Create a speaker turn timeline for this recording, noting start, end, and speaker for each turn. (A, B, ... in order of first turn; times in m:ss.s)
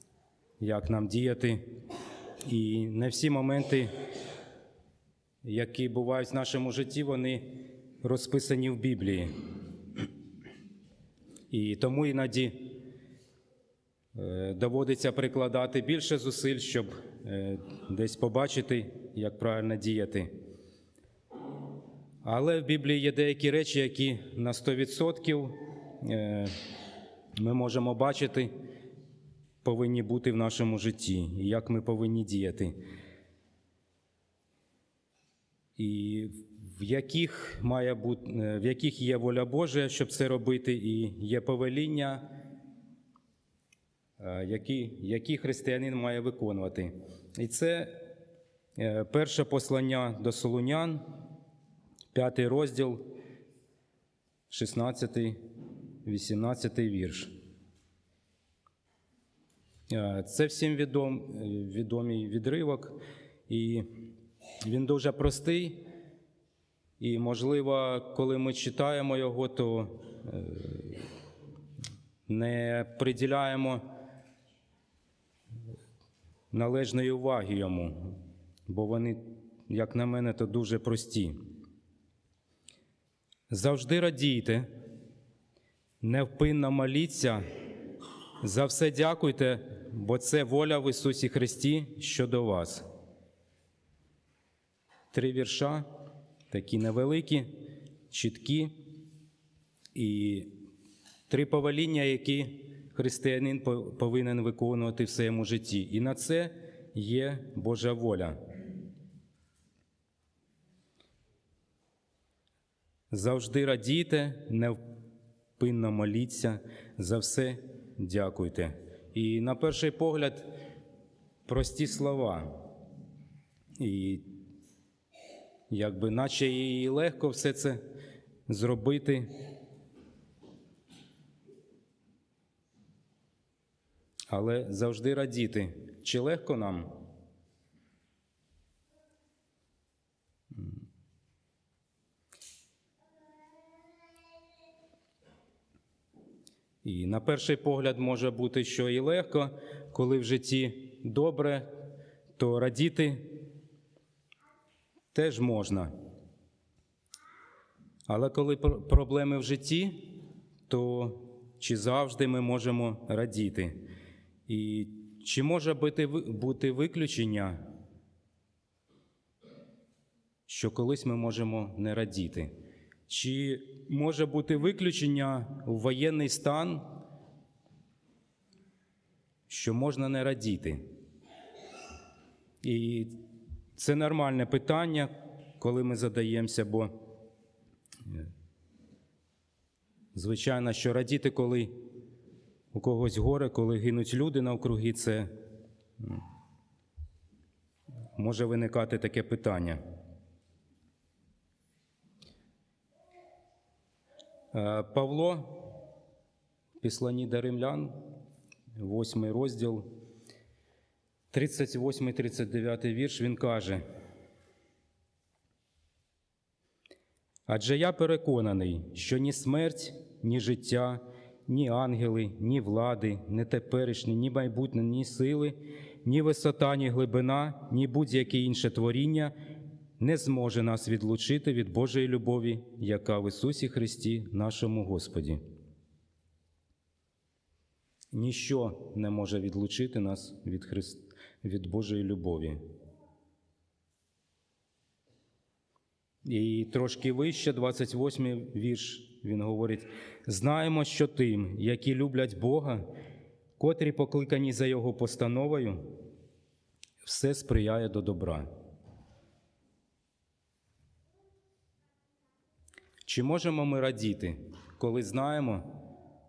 0:00.6-0:01.8 A
0:02.5-0:03.9 A
0:05.4-0:09.3 A
0:11.5-0:12.8 A
0:14.2-0:20.3 A
0:22.2-0:26.5 A
0:27.4-0:28.5 A
0:29.6-0:32.8 A
0:35.8-0:42.3 A
0:44.2-0:48.1 A
0:48.8-0:51.0 A
0:52.1-0:53.1 A
0:54.5-0:55.4 A
0:56.0-0:57.3 A
0:59.9-1:03.0 A
1:03.5-1:03.9 A
1:04.6-1:05.9 A
1:07.0-1:11.1 A
1:12.3-1:13.8 A
1:16.5-1:21.4 A
1:23.5-1:24.7 A
1:26.0-1:27.4 A
1:28.4-1:32.8 A
1:35.1-1:35.9 A
1:36.5-1:37.5 A
1:38.1-1:38.9 A
1:39.9-1:40.6 A
1:41.3-1:48.4 A
1:53.1-1:54.8 A
1:55.6-2:00.5 A
2:01.5-2:02.6 A
2:03.8-2:04.3 A
2:05.7-2:07.8 A
2:08.5-2:09.3 A
2:14.3-2:17.1 A
2:26.8-2:31.8 A
2:32.4-2:33.5 A
2:35.1-2:35.9 A
2:38.1-2:43.8 A
2:44.5-2:47.6 A
2:50.5-2:52.5 A
2:53.1-2:56.9 A
2:59.5-3:00.8 A
3:02.6-3:03.2 A
3:03.8-3:07.1 A
3:10.1-3:11.8 A
3:12.7-3:15.4 A
3:16.0-3:16.2 A
3:18.2-3:19.8 A
3:24.5-3:25.8 A
3:26.8-3:28.0 A
3:28.8-3:29.9 A
3:31.3-3:33.8 A
3:37.5-3:49.3 A
3:50.0-3:55.4 A
3:58.1-4:02.6 A
4:06.2-4:12.9 A
4:13.6-4:15.9 A
4:17.0-4:18.5 A
4:23.0-4:25.9 A